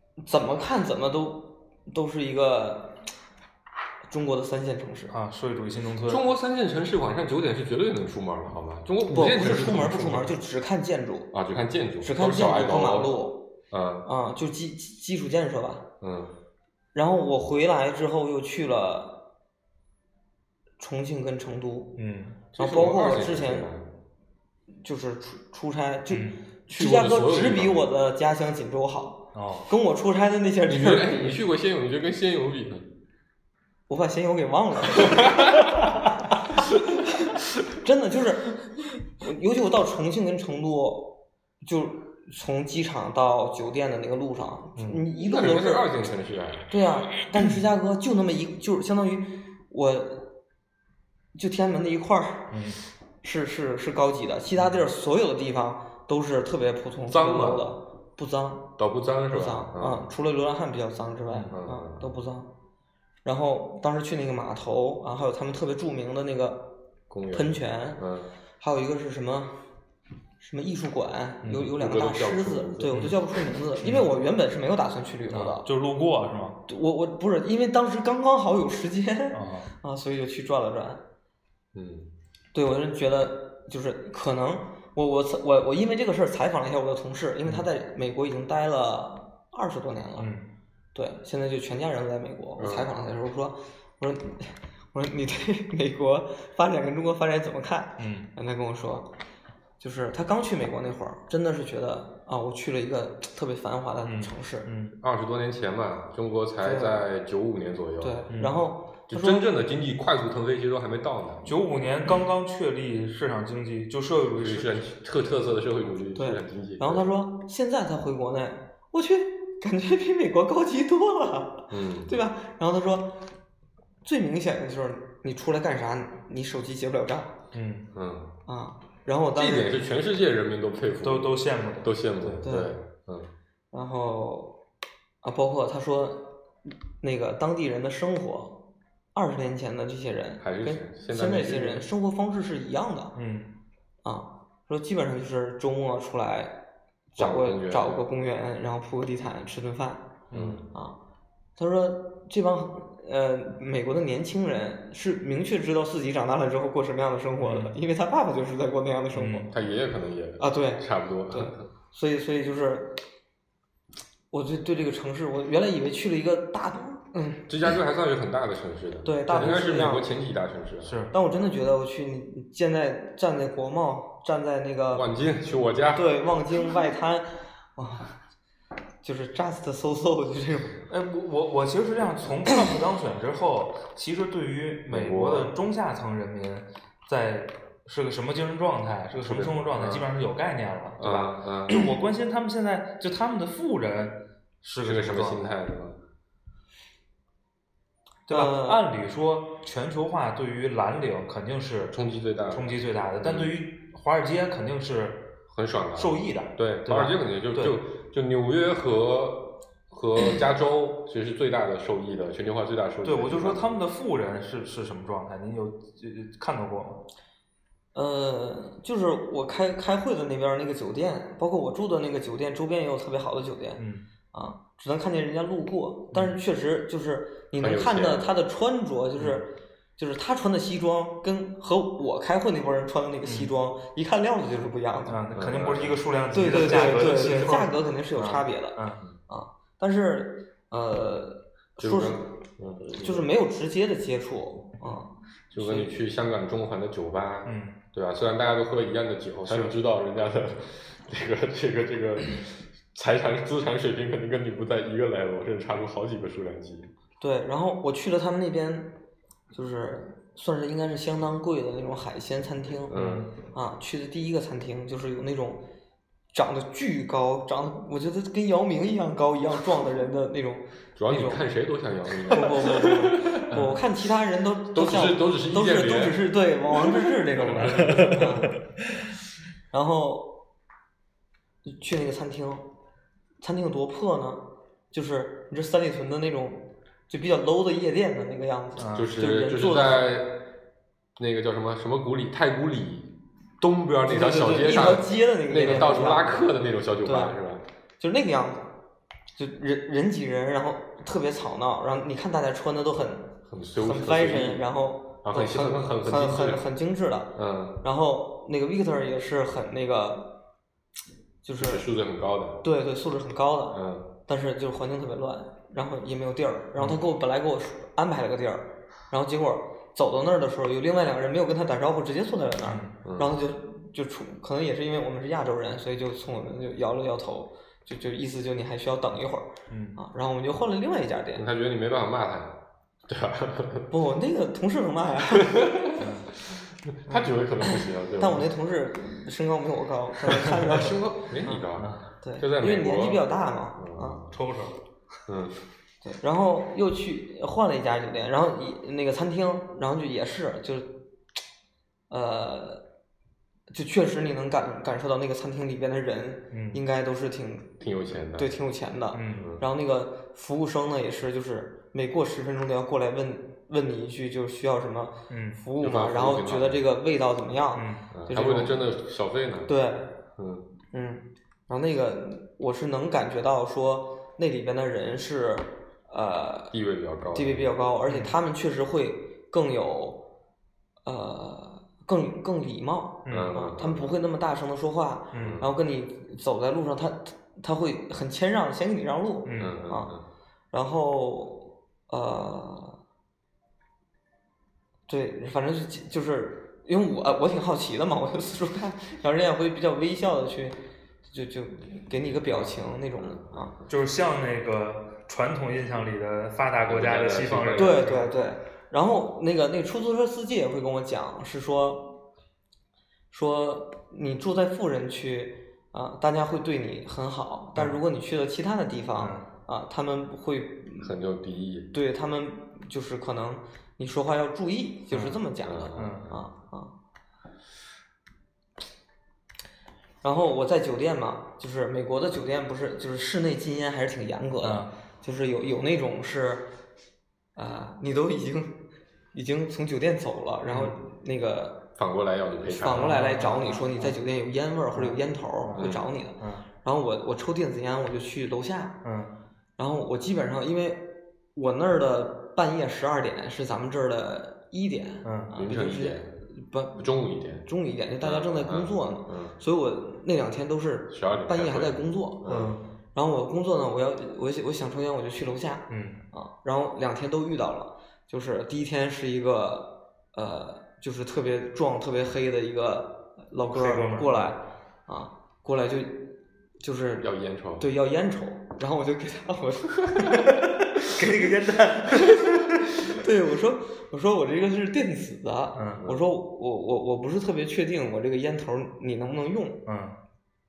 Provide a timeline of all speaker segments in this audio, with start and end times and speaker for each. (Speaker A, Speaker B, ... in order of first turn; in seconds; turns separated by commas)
Speaker A: 0.2-3.0, Speaker A: 4.1-5.1, Speaker B: 5.1-6.2, Speaker C: 6.1-10.3, Speaker A: 9.1-11.3, Speaker C: 11.3-13.2, Speaker A: 12.0-13.5, Speaker C: 13.7-14.1, Speaker A: 14.0-15.9, Speaker C: 16.0-16.3, Speaker A: 16.9-19.3, Speaker A: 20.8-22.0, Speaker B: 22.0-22.4, Speaker A: 22.5-23.7, Speaker C: 22.5-23.9, Speaker A: 24.8-31.4, Speaker B: 26.1-26.4, Speaker C: 26.7-27.9, Speaker B: 29.3-29.7, Speaker C: 30.6-32.9, Speaker A: 33.9-35.5, Speaker C: 35.0-35.7, Speaker A: 37.8-45.9, Speaker B: 44.8-45.0, Speaker C: 45.2-46.7, Speaker A: 46.7-50.3, Speaker A: 51.3-52.5, Speaker B: 52.5-52.8, Speaker A: 53.2-58.8, Speaker C: 57.1-57.7, Speaker C: 58.8-60.0, Speaker A: 59.3-62.5, Speaker C: 61.5-62.1, Speaker A: 63.2-66.8, Speaker C: 67.1-68.3, Speaker A: 67.3-68.0, Speaker A: 68.6-69.6, Speaker A: 70.4-75.7, Speaker B: 71.4-71.7, Speaker C: 71.6-73.2, Speaker B: 73.8-74.1, Speaker B: 75.3-76.6, Speaker A: 76.7-81.0, Speaker B: 79.3-79.7, Speaker C: 81.7-82.1, Speaker A: 82.5-90.3, Speaker B: 90.2-90.5, Speaker A: 90.9-99.1, Speaker C: 92.6-92.9, Speaker B: 98.0-98.3, Speaker A: 99.8-104.7, Speaker B: 104.0-105.0, Speaker C: 105.0-108.3, Speaker A: 106.6-107.0, Speaker A: 108.0-109.6, Speaker B: 108.3-108.6, Speaker C: 109.1-111.5, Speaker B: 111.4-114.9, Speaker C: 114.4-117.1, Speaker A: 116.1-123.3, Speaker C: 121.7-122.1, Speaker A: 124.0-127.3, Speaker B: 127.5-127.9, Speaker C: 127.9-128.3, Speaker A: 128.5-129.8, Speaker C: 129.3-133.3, Speaker B: 131.0-132.4, Speaker A: 132.4-132.8, Speaker A: 133.7-134.6, Speaker A: 135.2-138.6, Speaker A: 139.1-143.1, Speaker C: 140.4-141.8, Speaker B: 143.1-143.5, Speaker A: 144.0-146.6, Speaker A: 147.1-150.2, Speaker C: 147.2-148.1, Speaker B: 150.3-150.6, Speaker C: 150.3-150.7, Speaker A: 151.6-159.5, Speaker B: 157.4-157.7, Speaker B: 159.1-159.5, Speaker C: 159.5-161.7, Speaker A: 160.4-163.0, Speaker A: 164.3-167.5, Speaker C: 167.5-171.0, Speaker A: 169.0-170.1, Speaker B: 170.8-171.1, Speaker A: 171.1-175.1, Speaker C: 174.9-176.1, Speaker A: 175.9-178.1, Speaker A: 179.0-180.8, Speaker B: 180.9-195.4, Speaker C: 184.9-185.5, Speaker C: 189.2-190.1, Speaker C: 191.0-191.9, Speaker C: 194.8-196.0, Speaker B: 198.3-202.0, Speaker A: 198.3-198.8, Speaker C: 201.9-203.5, Speaker B: 202.5-205.3, Speaker C: 205.5-213.7, Speaker B: 205.9-207.8, Speaker B: 213.0-217.1, Speaker A: 217.9-235.2, Speaker B: 223.8-224.0, Speaker B: 226.1-226.4, Speaker C: 227.6-228.3, Speaker B: 233.2-233.5, Speaker B: 235.1-239.0, Speaker C: 235.3-236.0, Speaker A: 236.3-242.3, Speaker C: 241.8-243.3, Speaker A: 243.0-245.9, Speaker C: 245.5-256.9, Speaker B: 247.4-247.8, Speaker A: 257.2-258.9, Speaker A: 259.5-265.6, Speaker C: 262.9-263.3, Speaker B: 262.9-263.3, Speaker A: 266.3-271.4, Speaker C: 270.9-273.6, Speaker A: 272.3-278.6, Speaker B: 273.5-273.8, Speaker C: 274.7-276.3, Speaker C: 276.9-278.4, Speaker A: 279.7-280.4, Speaker A: 281.6-282.7, Speaker A: 283.4-290.1, Speaker B: 288.8-289.1, Speaker C: 288.9-290.5, Speaker C: 291.2-297.6, Speaker A: 294.1-296.4, Speaker A: 297.0-297.4, Speaker A: 298.0-298.7, Speaker A: 299.3-310.4, Speaker C: 303.5-304.7, Speaker C: 305.2-306.7, Speaker C: 307.3-307.8, Speaker A: 311.4-311.8, Speaker C: 311.6-312.6, Speaker A: 312.6-331.4, Speaker C: 313.7-314.1, Speaker B: 322.6-322.9, Speaker C: 323.0-323.3, Speaker B: 329.7-330.0, Speaker C: 331.3-333.9, Speaker A: 333.9-335.6, Speaker C: 335.3-338.5, Speaker B: 336.0-336.3, Speaker B: 337.1-337.3, Speaker A: 338.2-341.6, Speaker C: 340.5-344.3, Speaker B: 341.8-342.0, Speaker A: 342.2-344.2, Speaker B: 344.3-344.8, Speaker C: 345.3-345.6, Speaker A: 346.0-351.1, Speaker A: 352.1-352.8, Speaker A: 353.7-357.8, Speaker B: 356.5-356.8, Speaker C: 357.8-358.5, Speaker A: 358.3-368.8, Speaker B: 359.1-359.5, Speaker C: 359.4-359.6, Speaker B: 365.3-365.6, Speaker C: 365.8-366.8, Speaker B: 367.7-368.0, Speaker C: 368.1-369.7, Speaker A: 369.7-370.1, Speaker C: 370.4-370.7, Speaker A: 370.9-376.7, Speaker C: 376.7-377.7, Speaker A: 377.3-380.2, Speaker B: 378.1-378.3, Speaker A: 381.0-390.1, Speaker B: 383.2-383.5, Speaker C: 383.3-384.1, Speaker B: 385.3-385.6, Speaker C: 385.4-385.7, Speaker B: 389.4-389.8, Speaker C: 389.6-390.2, Speaker A: 390.7-393.0, Speaker A: 395.1-403.8, Speaker C: 402.5-403.6, Speaker B: 403.9-408.3, Speaker C: 406.9-408.1, Speaker A: 407.8-412.2, Speaker A: 413.3-421.2, Speaker B: 417.8-418.0, Speaker B: 419.2-419.5, Speaker C: 421.0-421.9, Speaker A: 421.9-426.9, Speaker B: 425.1-425.4, Speaker C: 425.6-426.4, Speaker B: 425.9-426.3, Speaker A: 430.2-436.7, Speaker B: 434.6-434.9, Speaker A: 437.5-438.8, Speaker A: 439.3-441.9, Speaker B: 440.7-440.9, Speaker C: 442.0-443.2, Speaker A: 442.7-449.0, Speaker B: 442.9-444.2, Speaker B: 444.9-446.6, Speaker C: 445.7-446.1, Speaker B: 449.0-449.3, Speaker A: 449.8-457.0, Speaker B: 455.2-455.5, Speaker C: 455.6-456.3, Speaker C: 456.9-457.7, Speaker A: 457.6-462.5, Speaker C: 458.2-459.6, Speaker C: 461.1-462.7, Speaker B: 462.4-462.8, Speaker A: 463.1-477.3, Speaker B: 465.9-466.2, Speaker B: 473.7-474.5, Speaker C: 477.2-477.9, Speaker A: 477.8-480.5, Speaker B: 481.0-482.6, Speaker A: 482.1-482.4, Speaker A: 483.0-489.8, Speaker B: 485.7-486.0, Speaker B: 489.9-490.1